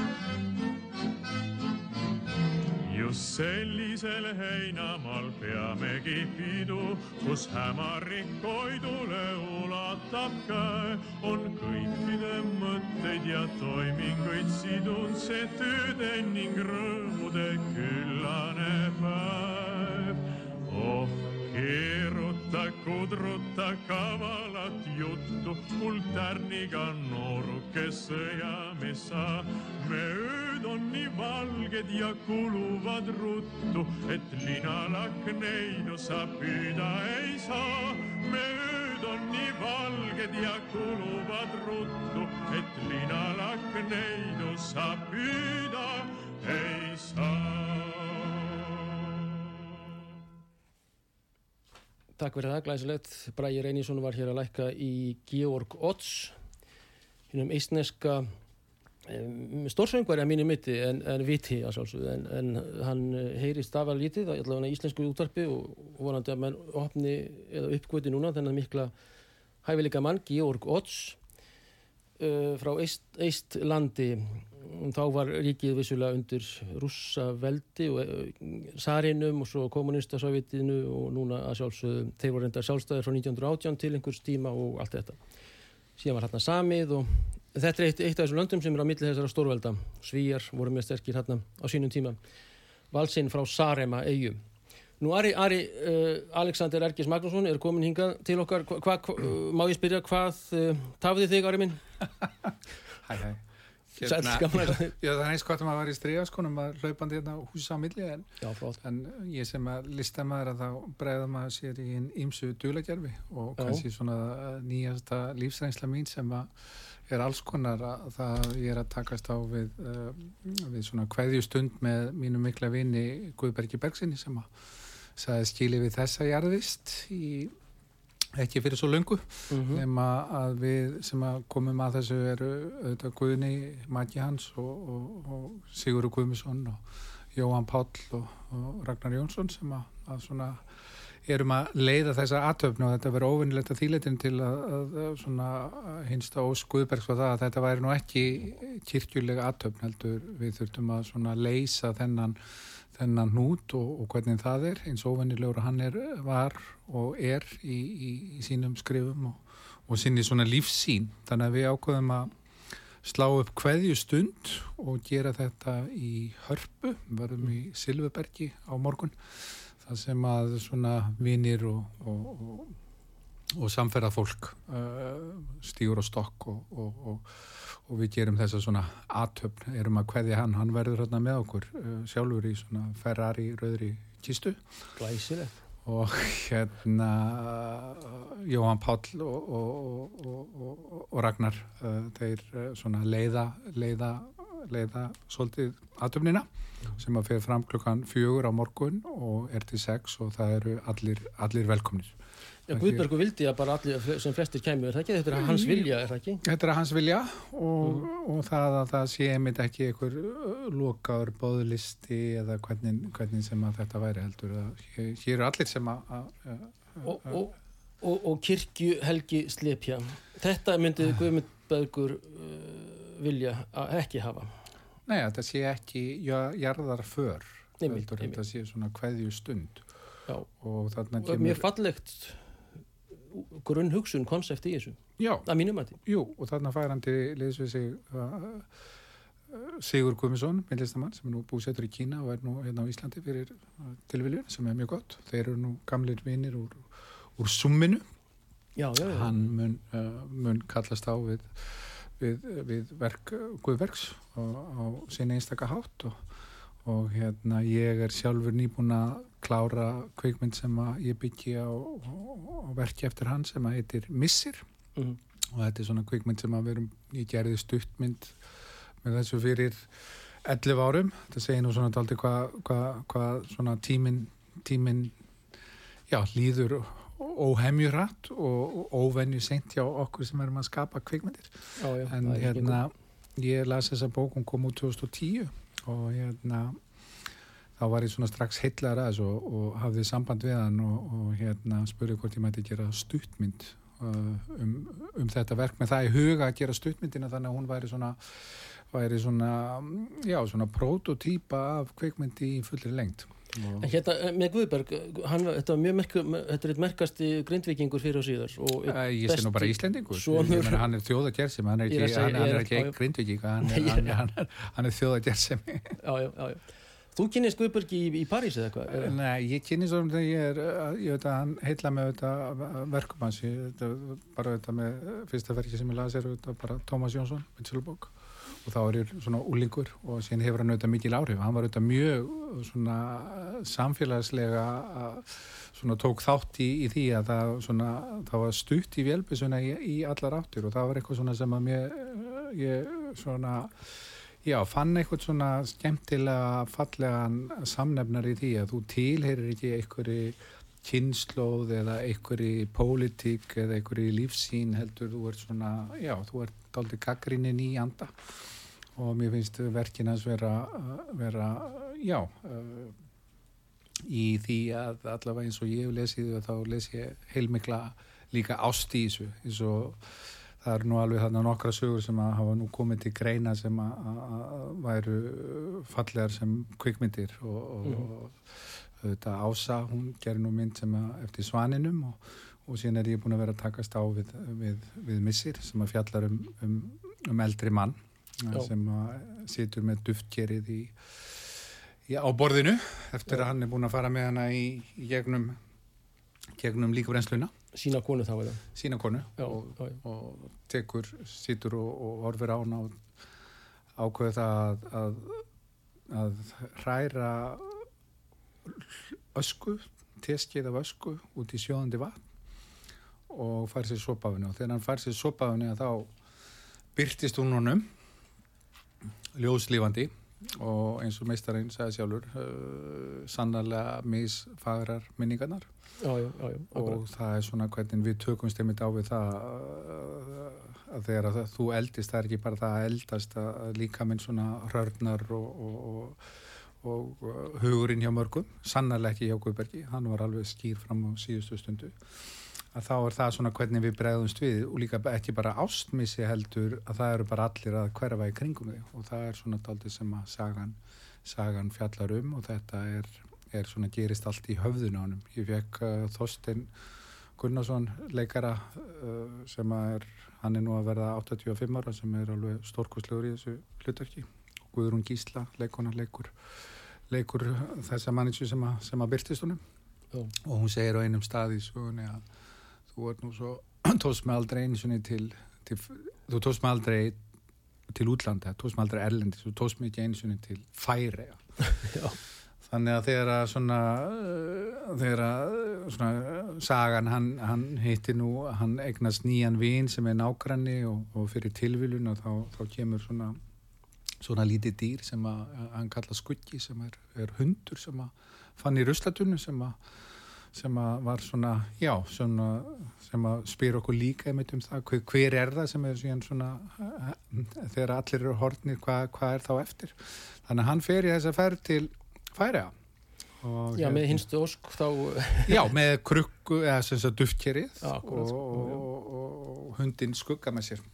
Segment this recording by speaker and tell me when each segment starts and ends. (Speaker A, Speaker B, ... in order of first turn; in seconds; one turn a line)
Speaker A: 2.8-49.5
Speaker B: 52.2-56.3
Speaker B: 57.3-58.3
Speaker B: 59.0-68.9
Speaker B: 69.6-71.2
Speaker B: 72.2-85.2
Speaker B: 86.0-92.2
Speaker B: 92.9-94.4
Speaker B: 95.0-101.8
Speaker C: 102.4-103.4
Speaker C: 103.9-116.5
Speaker B: 104.0-104.9
Speaker B: 108.4-108.8
Speaker B: 113.6-113.8
Speaker C: 117.1-124.5
Speaker C: 125.2-127.5
Speaker C: 128.3-140.7
Speaker B: 129.5-129.8
Speaker C: 141.2-152.4
Speaker C: 152.9-162.3
Speaker C: 163.0-172.8
Speaker C: 173.5-184.6
Speaker B: 185.0-185.5
Speaker C: 185.8-202.1
Speaker B: 202.7-206.4
Speaker C: 202.7-203.1
Speaker C: 205.3-205.9
Speaker C: 206.4-217.4
Speaker B: 217.0-224.6
Speaker C: 225.1-229.8
Speaker B: 227.8-228.4
Speaker C: 230.6-231.7
Speaker B: 231.2-232.4
Speaker B: 233.3-235.9
Speaker C: 235.2-235.5
Speaker C: 236.0-238.7
Speaker C: 239.5-248.0
Speaker B: 248.8-249.3
Speaker C: 249.0-256.2
Speaker C: 256.8-264.6
Speaker C: 265.5-268.4
Speaker C: 269.0-269.9
Speaker C: 270.4-275.1
Speaker C: 276.1-286.8
Speaker B: 281.8-282.8
Speaker C: 287.8-303.9
Speaker B: 303.8-310.9
Speaker C: 308.9-316.0
Speaker B: 311.9-312.9
Speaker B: 313.6-314.1
Speaker B: 316.0-316.6
Speaker B: 317.1-319.1
Speaker C: 318.9-358.4
Speaker C: 358.9-362.9
Speaker C: 364.0-395.6
Speaker C: 396.5-397.5
Speaker B: 397.7-398.6
Speaker C: 398.7-403.0
Speaker B: 399.4-399.9
Speaker C: 403.9-405.4
Speaker C: 406.1-407.8
Speaker C: 408.6-412.2
Speaker C: 413.3-416.1
Speaker C: 416.9-417.9
Speaker C: 419.3-425.7
Speaker B: 426.0-427.0
Speaker C: 426.7-436.3
Speaker C: 436.8-441.9
Speaker C: 442.7-456.7
Speaker C: 457.4-466.3
Speaker C: 467.1-469.6
Speaker C: 470.4-472.2
Speaker C: 472.9-477.2
Speaker C: 477.9-481.4
Speaker B: 481.7-482.2
Speaker C: 482.6-493.4
Speaker C: 494.2-499.8
Speaker C: 500.5-512.7
Speaker C: 513.4-514.2
Speaker B: 513.7-515.6
Speaker C: 515.5-520.8
Speaker B: 517.8-518.8